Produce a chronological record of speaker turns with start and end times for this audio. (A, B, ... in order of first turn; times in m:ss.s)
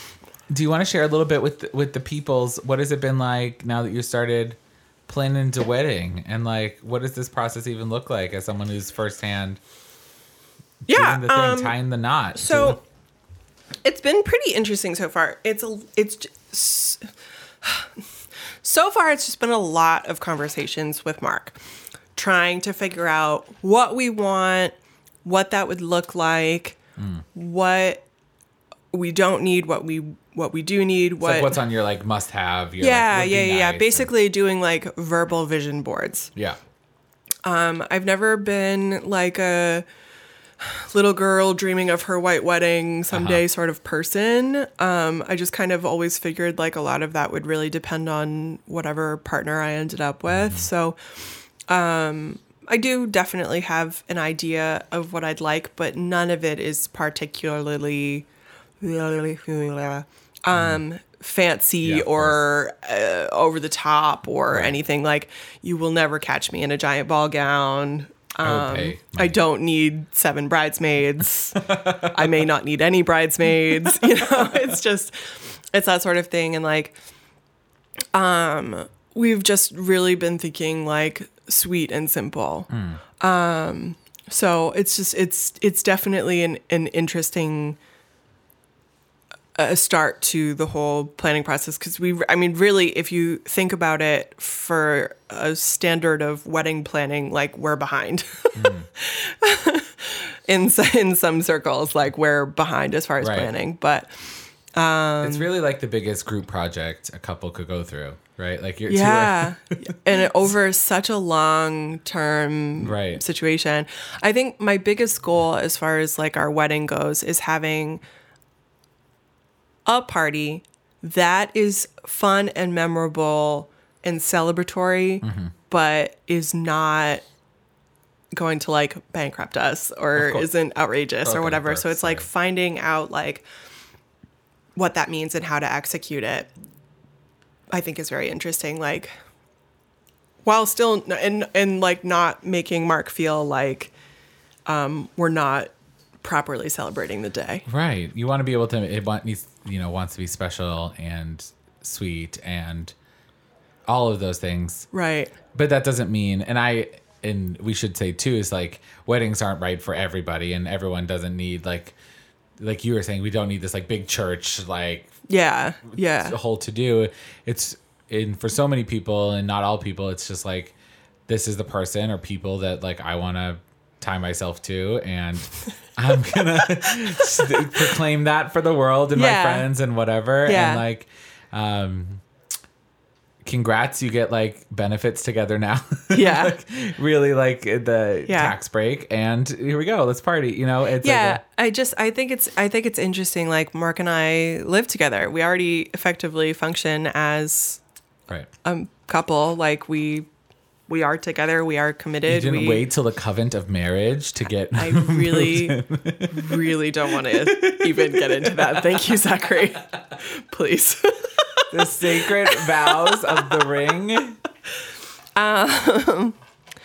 0:00.5-0:09.6 A
0:10.8-0:12.8 A
0:10.9-0:11.7 B
0:12.3-0:12.8 B
0:13.8-0:17.1 B
0:17.6-0:17.9 B
0:18.6-0:21.6 B
0:22.2-0:26.8 B
0:27.0-0:27.2 A
0:27.3-0:28.0 B
0:28.9-0:31.6 B
0:31.2-0:34.1 A
0:32.8-0:36.3 B
0:37.4-0:39.8 B
0:40.6-0:51.0 B
0:43.1-0:43.4 A
0:50.3-0:50.6 A
0:51.7-0:58.3 B
0:58.8-1:17.0 B
1:01.8-1:02.4 A
1:08.4-1:09.4 A
1:11.6-1:12.1 A
1:18.1-1:22.7 B
1:22.7-1:23.0 A
1:23.2-1:27.8 B
1:29.6-1:45.5 B
1:38.5-1:38.9 A
1:43.2-1:43.5 A
1:45.2-1:49.7 A
1:48.9-1:58.0 B
1:52.8-1:53.2 A
1:59.8-2:07.2 B
2:05.2-2:05.5 A
2:08.3-2:13.4 B
2:10.2-2:10.5 A
2:11.2-2:12.3 A
2:14.8-2:16.5 B
2:17.7-2:19.1 B
2:20.4-2:23.9 B
2:24.7-2:25.7 B
2:26.2-2:27.6 B
2:27.7-2:32.9 A
2:33.9-2:34.9 A
2:34.9-2:35.3 B
2:35.5-2:41.9 A
2:42.6-2:45.1 A
2:45.3-2:46.4 B
2:45.9-2:50.7 A
2:51.3-3:02.2 A
2:59.1-2:59.7 B
3:00.4-3:00.8 B
3:03.4-3:11.4 A
3:06.1-3:06.6 B
3:08.3-3:08.5 B
3:11.0-3:17.8 B
3:18.6-3:20.3 B
3:20.9-3:22.8 B
3:22.2-3:26.6 A
3:24.7-3:31.7 B
3:27.2-3:29.2 A
3:31.7-3:34.4 A
3:32.2-3:33.4 B
3:35.4-3:36.4 B